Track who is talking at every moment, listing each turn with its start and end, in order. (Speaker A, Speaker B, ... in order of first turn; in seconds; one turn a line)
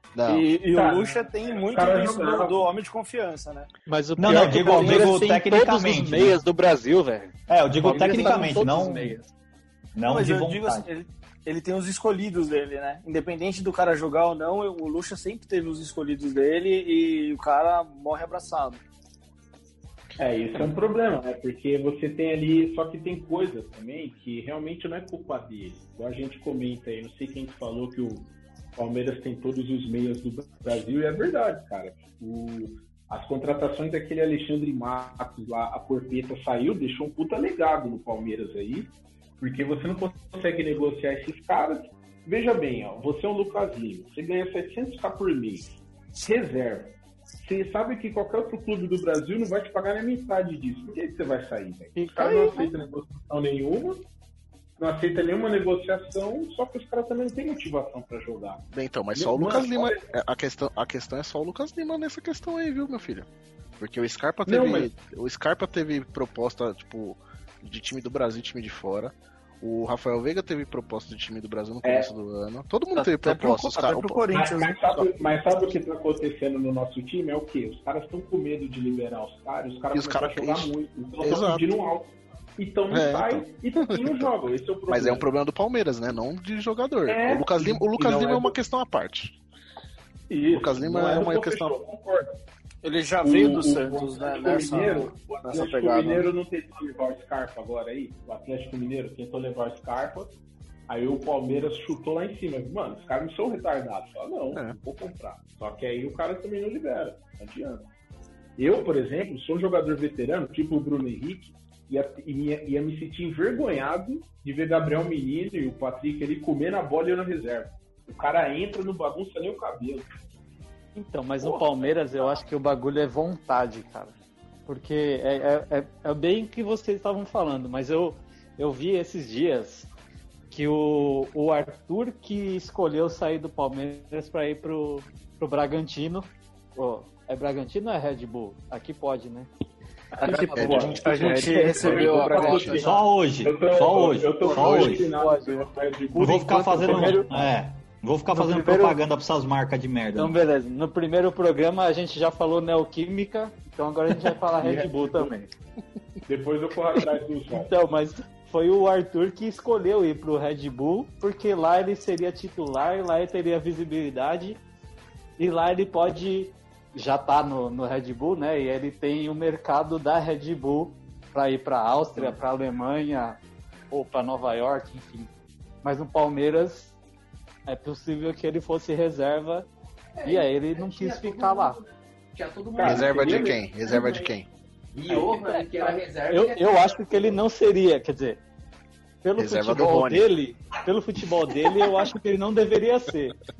Speaker A: 0.1-0.5
Speaker B: 0.3-3.7
Speaker C: 0.7-2.6
Speaker D: 3.9-9.2
Speaker E: 4.2-6.4
Speaker E: 7.5-9.1
Speaker E: 9.9-10.9
Speaker B: 10.0-18.8
Speaker C: 20.2-54.0
Speaker D: 51.9-52.8
Speaker C: 54.8-60.0
Speaker A: 58.7-63.3
Speaker A: 63.8-74.2
Speaker C: 64.5-64.9
Speaker C: 71.8-72.1
Speaker B: 72.9-74.8
Speaker C: 74.3-85.3
Speaker A: 79.9-81.6
Speaker A: 82.9-89.3
Speaker C: 87.0-88.5
Speaker C: 90.3-92.4
Speaker A: 90.5-91.8
Speaker B: 92.8-96.3
Speaker C: 93.2-100.3
Speaker C: 100.9-107.9
Speaker C: 108.6-120.1
Speaker D: 120.9-124.1
Speaker C: 121.4-122.4
Speaker D: 124.7-129.9
Speaker D: 130.5-139.5
Speaker C: 140.2-147.2
Speaker B: 140.2-142.8
Speaker F: 140.2-140.9
Speaker A: 140.6-142.8
Speaker F: 141.8-142.7
Speaker D: 142.1-142.9
Speaker E: 142.8-145.1
Speaker D: 144.4-145.7
Speaker E: 146.2-150.4
Speaker A: 146.4-147.1
Speaker D: 146.8-147.3
Speaker D: 148.3-149.0
Speaker D: 150.1-155.5
Speaker C: 154.6-155.3
Speaker C: 156.3-157.7
Speaker D: 156.9-164.6
Speaker D: 165.4-173.4
Speaker D: 173.9-175.3
Speaker D: 175.8-176.9
Speaker D: 177.7-179.7
Speaker F: 180.2-184.3
Speaker D: 180.2-181.8
Speaker C: 182.7-183.7
Speaker A: 182.8-184.5
Speaker F: 184.9-187.2
Speaker D: 186.3-188.4
Speaker D: 189.2-193.3
Speaker A: 189.4-190.3